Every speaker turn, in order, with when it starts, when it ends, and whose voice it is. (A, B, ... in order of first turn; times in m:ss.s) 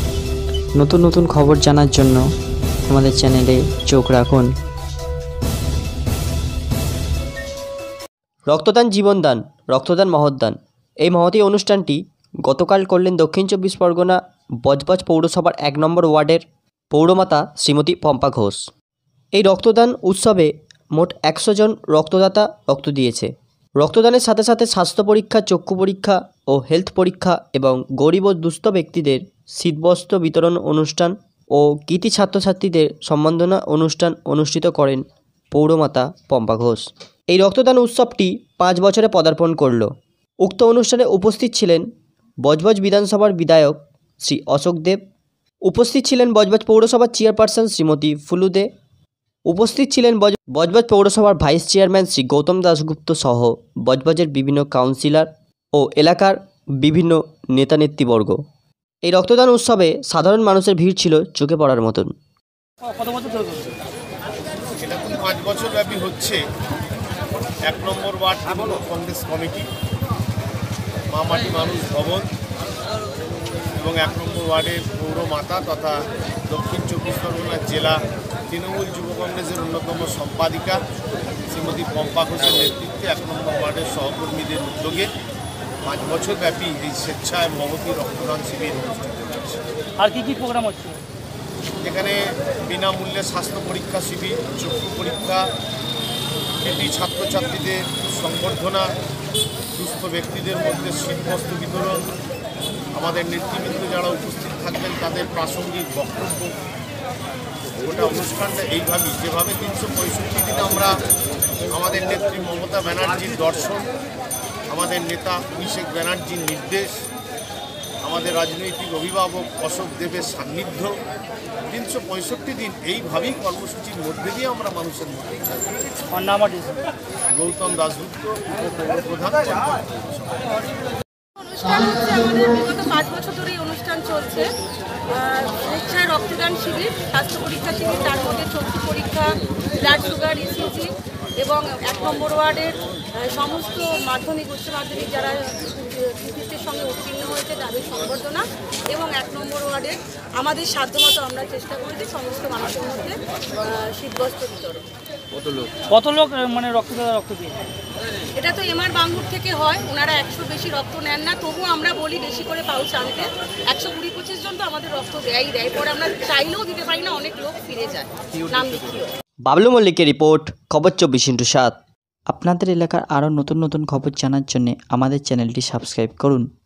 0:00.8-0:02.2 A
0:02.9-0:04.5 A
0:08.5-0:18.7 B
0:19.4-0:39.9 B
0:40.4-0:41.8 B
0:42.4-0:45.0 B
0:45.6-0:48.7 B
0:49.5-0:58.4 B
0:59.0-1:02.1 B
1:02.9-1:03.7 C
1:04.8-1:06.4 D
1:07.6-1:09.7 D
1:11.1-1:12.3 D
1:13.8-1:20.8 D
1:21.5-1:25.1 D
1:25.8-1:29.6 D
1:30.0-1:31.0 C
1:31.8-1:35.5 D
1:36.6-1:38.9 D
1:39.7-1:42.0 D
1:42.9-1:46.6 D
1:47.8-1:51.0 D
1:51.7-1:53.9 D
1:54.7-1:57.0 D
1:58.0-2:00.9 D
2:01.7-2:05.7 D
2:06.1-2:06.8 C
2:07.3-2:10.5 D
2:11.4-2:14.5 E
2:15.1-2:34.8 E
2:35.9-2:37.6 C
2:38.4-2:49.1 E
2:49.5-2:51.7 B
2:52.3-2:56.4 A